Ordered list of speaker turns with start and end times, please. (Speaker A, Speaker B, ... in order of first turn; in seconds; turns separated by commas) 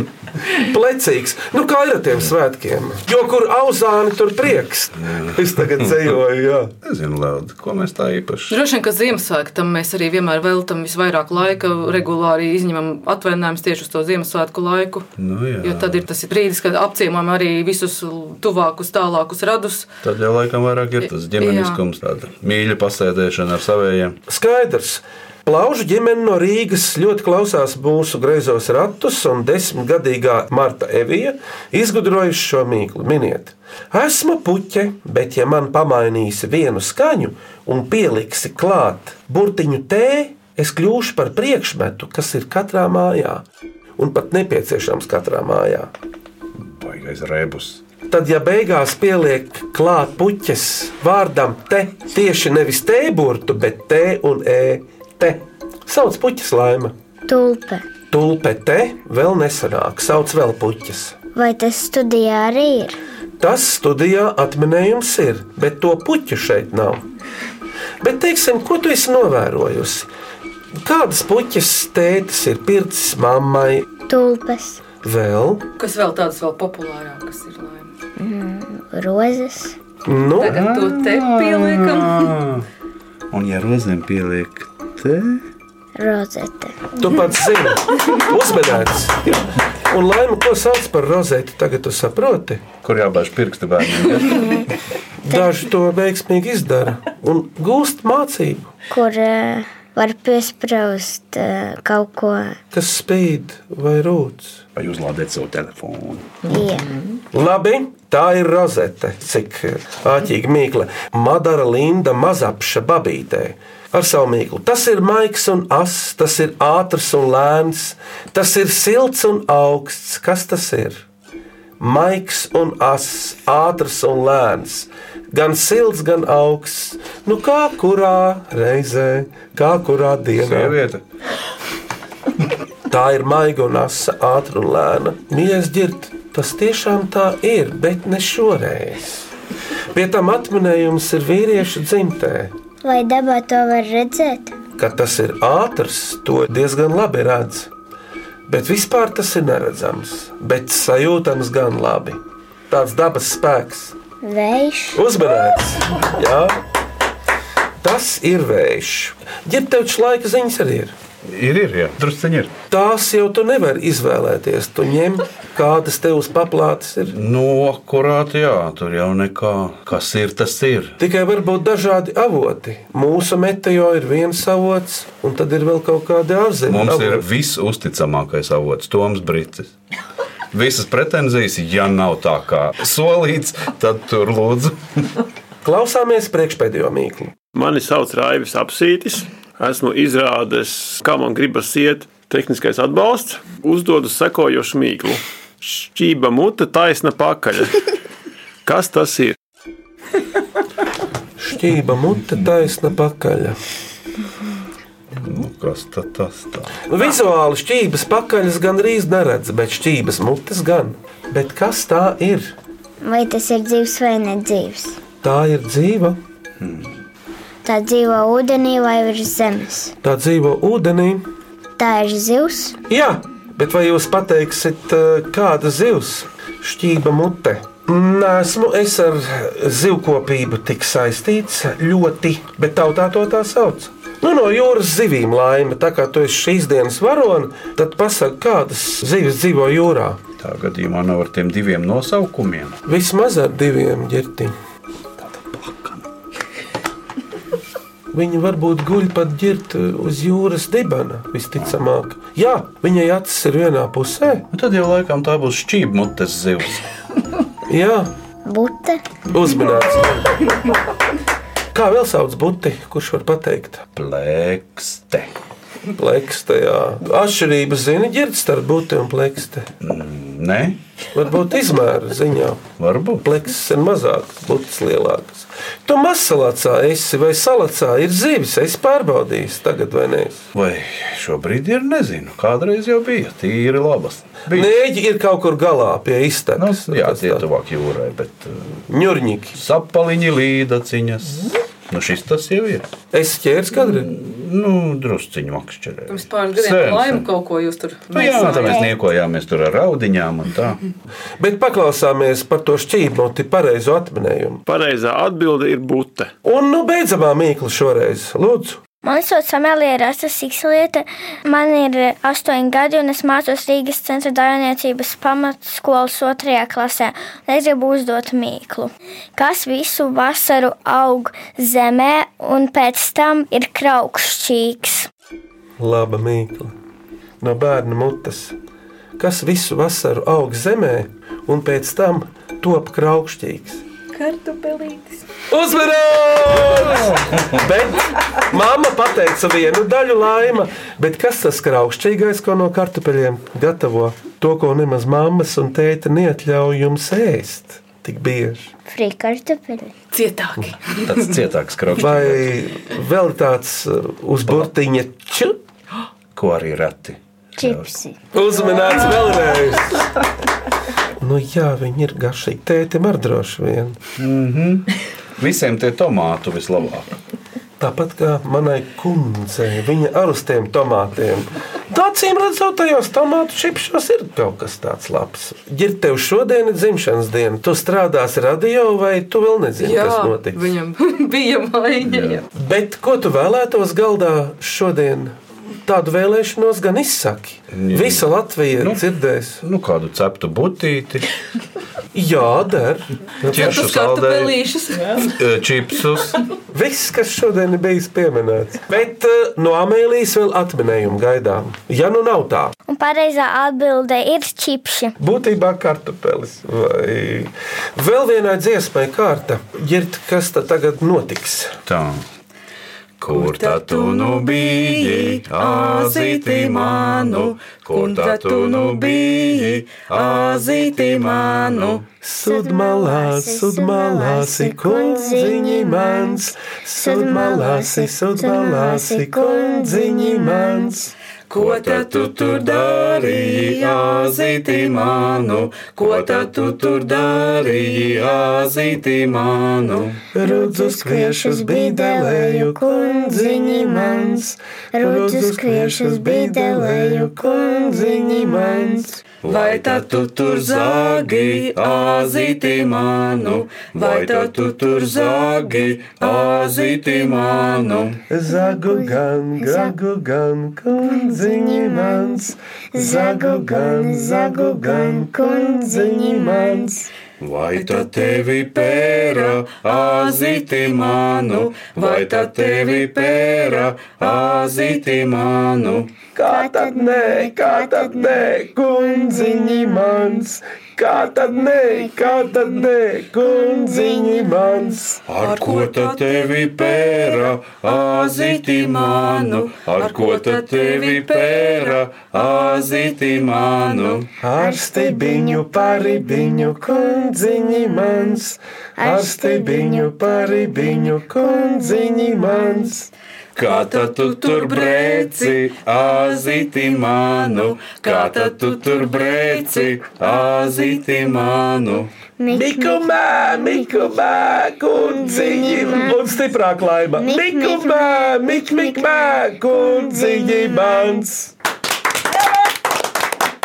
Speaker A: 0.5-6.7, Speaker B: 5.0-5.4, Speaker B: 6.8-8.6, Speaker C: 8.5-15.1, Speaker B: 15.2-16.0, Speaker C: 15.6-19.9, Speaker B: 20.0-24.2, Speaker C: 21.0-21.8, Speaker A: 24.3-43.5, Speaker A: 44.0-45.9, Speaker B: 46.6-47.8, Speaker A: 48.1-56.9, Speaker D: 57.3-57.8, Speaker A: 58.1-61.1, Speaker D: 61.4-63.0, Speaker A: 63.4-67.0, Speaker A: 68.0-70.1, Speaker A: 70.8-73.9, Speaker D: 74.1-74.8, Speaker A: 75.0-75.6, Speaker C: 75.8-77.9, Speaker D: 78.2-79.8, Speaker A: 80.1-80.6, Speaker C: 80.4-82.3, Speaker B: 80.4-82.7, Speaker B: 83.3-85.4, Speaker D: 86.0-86.9, Speaker A: 87.0-89.2, Speaker A: 89.9-92.6, Speaker B: 92.8-94.6, Speaker A: 95.2-98.7, Speaker D: 98.9-102.6, Speaker A: 102.7-104.6, Speaker B: 104.8-106.2, Speaker D: 106.5-106.9, Speaker A: 107.3-121.0, Speaker A: 121.8-130.8, Speaker B: 130.4-131.0, Speaker A: 132.9-139.3, Speaker A: 139.9-142.5, Speaker D: 142.8-144.6, Speaker A: 144.8-147.7, Speaker A: 148.5-152.2, Speaker A: 152.7-153.9, Speaker D: 154.2-155.0, Speaker A: 154.9-156.6, Speaker A: 157.8-160.9, Speaker B: 161.3-162.5, Speaker A: 162.7-167.2, Speaker B: 167.1-170.9, Speaker A: 171.0-177.2, Speaker B: 176.7-179.7, Speaker B: 180.5-185.1, Speaker A: 185.6-187.3, Speaker E: 187.5-197.8, Speaker E: 198.7-199.4, Speaker A: 201.4-203.6, Speaker B: 205.2-206.8, Speaker A: 206.9-212.5, Speaker D: 213.0-215.0, Speaker A: 215.2-216.2, Speaker B: 216.6-216.9, Speaker D: 217.6-219.9, Speaker A: 220.0-221.2, Speaker D: 221.8-222.8, Speaker A: 222.9-240.2, Speaker B: 240.4-242.8, Speaker A: 242.9-244.6, Speaker B: 245.2-246.0, Speaker A: 248.1-254.4, Speaker B: 254.5-256.8, Speaker A: 257.7-258.1, Speaker D: 258.4-259.0, Speaker A: 259.3-260.3, Speaker A: 261.7-263.8, Speaker B: 264.0-265.3, Speaker A: 265.9-269.7, Speaker B: 269.8-270.8, Speaker A: 271.1-272.6, Speaker B: 272.8-273.2, Speaker A: 273.2-280.4, Speaker B: 280.6-284.7, Speaker A: 284.5-287.4, Speaker B: 286.6-288.8, Speaker A: 288.9-289.6, Speaker B: 289.6-292.9, Speaker A: 293.1-294.1, Speaker B: 293.8-297.3, Speaker C: 296.1-298.8, Speaker B: 298.1-300.8, Speaker A: 301.4-304.6, Speaker E: 304.7-306.3, Speaker A: 306.4-308.8, Speaker F: 309.0-325.1, Speaker A: 325.8-326.7, Speaker A: 327.4-328.6, Speaker A: 329.2-333.8, Speaker C: 334.1-335.2, Speaker A: 335.5-348.7, Speaker B: 336.9-337.4, Speaker D: 348.9-349.9, Speaker C: 350.1-351.2, Speaker B: 351.0-352.6, Speaker A: 352.0-355.6, Speaker B: 356.4-357.9, Speaker D: 357.6-358.2, Speaker A: 358.3-360.1, Speaker A: 361.2-364.0, Speaker B: 364.2-367.1, Speaker A: 367.8-380.7, Speaker C: 379.8-382.4, Speaker B: 382.0-382.4, Speaker A: 382.5-389.6, Speaker B: 387.7-388.3, Speaker B: 389.6-391.3, Speaker A: 392.1-393.8, Speaker B: 393.5-394.6, Speaker C: 393.5-395.3, Speaker B: 395.2-396.4, Speaker A: 396.7-402.7, Speaker F: 402.9-405.1, Speaker A: 405.2-411.8, Speaker B: 411.9-412.2, Speaker B: 413.2-422.1, Speaker C: 413.4-414.0, Speaker C: 418.0-418.9, Speaker C: 421.5-421.8, Speaker A: 422.2-431.1, Speaker D: 422.4-431.0, Speaker B: 431.5-440.2, Speaker A: 440.3-449.2, Speaker D: 440.4-449.1, Speaker B: 449.4-458.2, Speaker C: 449.5-452.2, Speaker C: 453.8-455.0, Speaker A: 458.3-467.0, Speaker D: 458.5-460.0, Speaker D: 461.0-467.1, Speaker B: 467.4-476.1, Speaker C: 467.8-469.3, Speaker C: 472.1-472.7, Speaker A: 476.4-485.2, Speaker D: 476.4-480.5, Speaker D: 481.2-482.8, Speaker D: 483.4-485.2, Speaker B: 485.3-494.3, Speaker C: 485.4-487.3, Speaker C: 488.1-492.0, Speaker A: 494.4-503.1, Speaker D: 494.6-503.0, Speaker B: 503.6-512.1, Speaker C: 503.6-505.7, Speaker C: 507.2-510.2, Speaker D: 512.4-514.0, Speaker A: 512.5-521.4, Speaker D: 514.9-516.4, Speaker D: 517.2-521.4